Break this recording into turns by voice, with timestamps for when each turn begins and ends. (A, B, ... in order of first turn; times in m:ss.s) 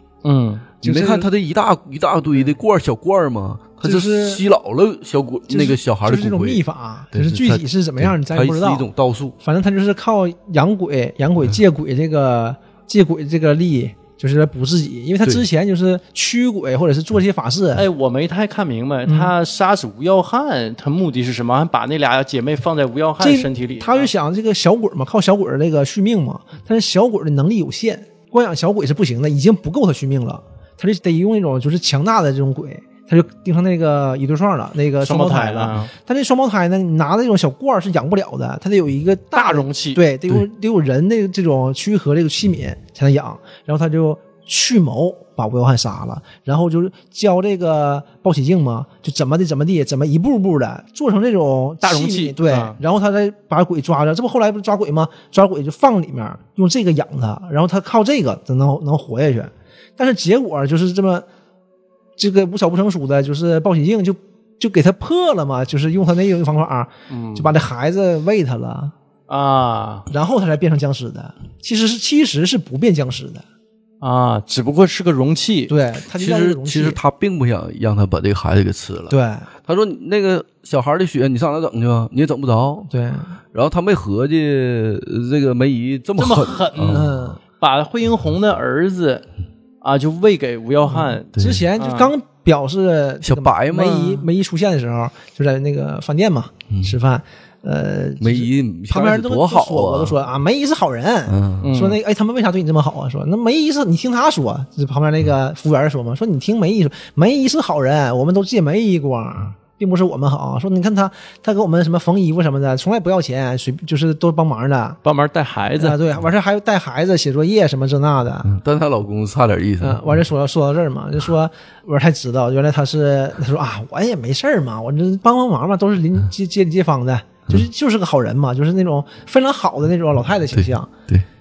0:00.2-0:00.7 A
0:00.8-0:09.4 B
0:00.8-0:01.3 C
0:03.8-0:04.4 C
0:05.5-0:08.9 C
0:09.4-0:17.8 C
0:17.8-0:24.1 A
0:19.1-0:19.3 C
0:23.2-1:01.2 C
0:35.0-0:35.9 A
0:39.3-0:40.0 A
0:51.8-0:52.8 A
1:02.2-1:08.9 C
1:07.1-1:07.5 A
1:09.3-1:10.1 A
1:10.1-1:13.4 C
1:14.0-1:15.7 A
1:15.7-1:17.0 C
1:16.2-1:22.9 B
1:19.1-1:19.5 C
1:22.9-1:23.3 C
1:23.5-1:27.2 B
1:26.2-1:29.2 A
1:26.8-1:27.4 C
1:29.8-1:32.1 A
1:30.9-1:55.0 C
1:31.3-1:31.6 B
1:33.2-1:34.3 B
1:38.2-1:40.2 B
1:41.3-1:41.7 B
1:41.6-1:42.0 A
1:55.0-1:56.0 A
1:55.8-1:58.5 C
1:58.4-2:00.0 B
1:59.8-2:10.9 C
2:10.5-2:11.2 B